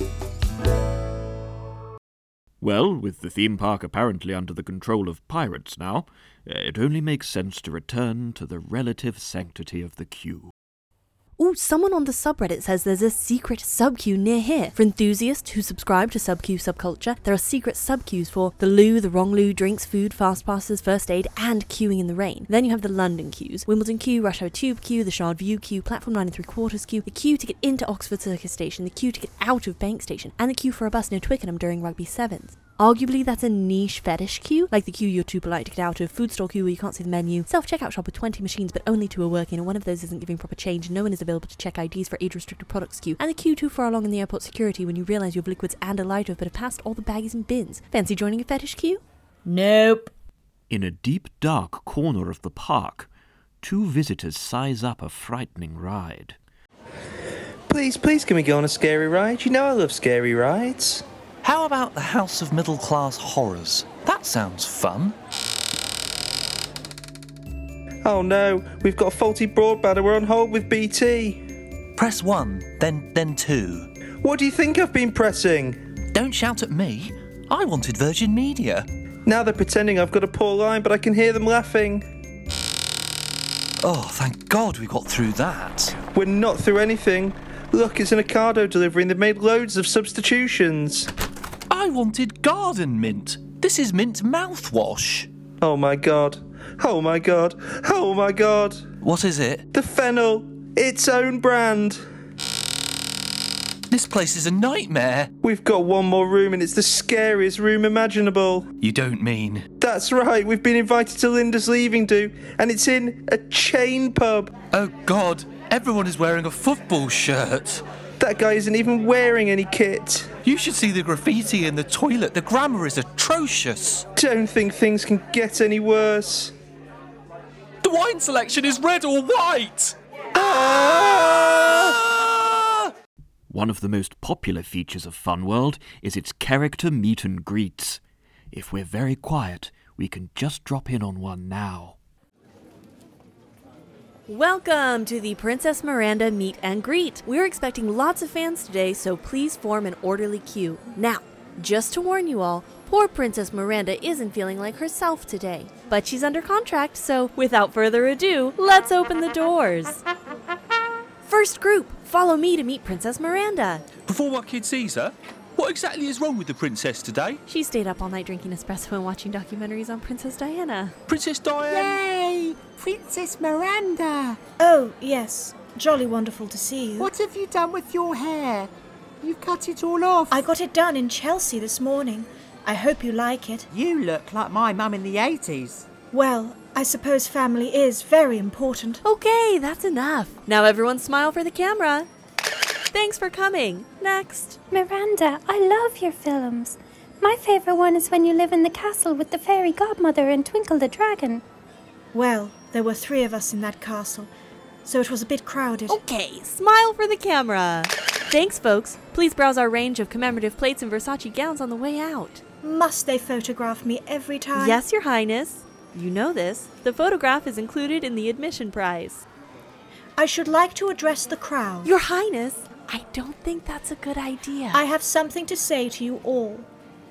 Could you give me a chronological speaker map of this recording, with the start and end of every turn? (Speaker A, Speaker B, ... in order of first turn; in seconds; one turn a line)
Speaker A: 2.6-10.5
Speaker B: 11.4-49.0
Speaker C: 49.5-50.1
Speaker A: 50.7-53.1
Speaker A: 53.6-56.4
Speaker D: 57.7-61.0
Speaker D: 68.0-71.4
Speaker E: 72.0-73.9
Speaker D: 74.2-75.8
Speaker E: 76.1-78.9
Speaker D: 79.3-82.0
Speaker E: 83.8-86.0
Speaker D: 86.1-91.1
Speaker E: 91.7-95.3
Speaker D: 95.6-98.9
Speaker E: 99.0-99.6
Speaker D: 99.7-102.0
Speaker E: 103.9-105.3
Speaker D: 105.4-108.7
Speaker E: 108.8-109.7
Speaker D: 109.8-114.5
Speaker E: 114.7-117.8
Speaker D: 118.2-120.3
Speaker E: 120.4-124.1
Speaker D: 124.2-126.5
Speaker E: 127.8-131.9
Speaker A: 133.5-142.0
Speaker B: 144.3-160.0
Speaker B: 161.2-163.8
Speaker E: 164.1-167.4
Speaker B: 167.5-170.9
Speaker E: 171.1-171.8
Speaker F: 171.7-174.4
Speaker C: 174.6-177.1
Speaker F: 177.0-178.7
Speaker F: 179.2-180.5
Speaker C: 180.3-183.7
Speaker F: 183.7-185.8
Speaker C: 186.1-189.0
Speaker B: 189.0-192.1
Speaker B: 192.9-194.6
Speaker G: 194.7-201.4
Speaker C: 202.1-204.3
Speaker C: 204.8-206.0
Speaker B: 205.9-212.4
Speaker C: 212.6-214.8
Speaker B: 214.5-219.2
Speaker C: 220.2-221.9
Speaker B: 221.8-224.8
Speaker C: 224.7-226.7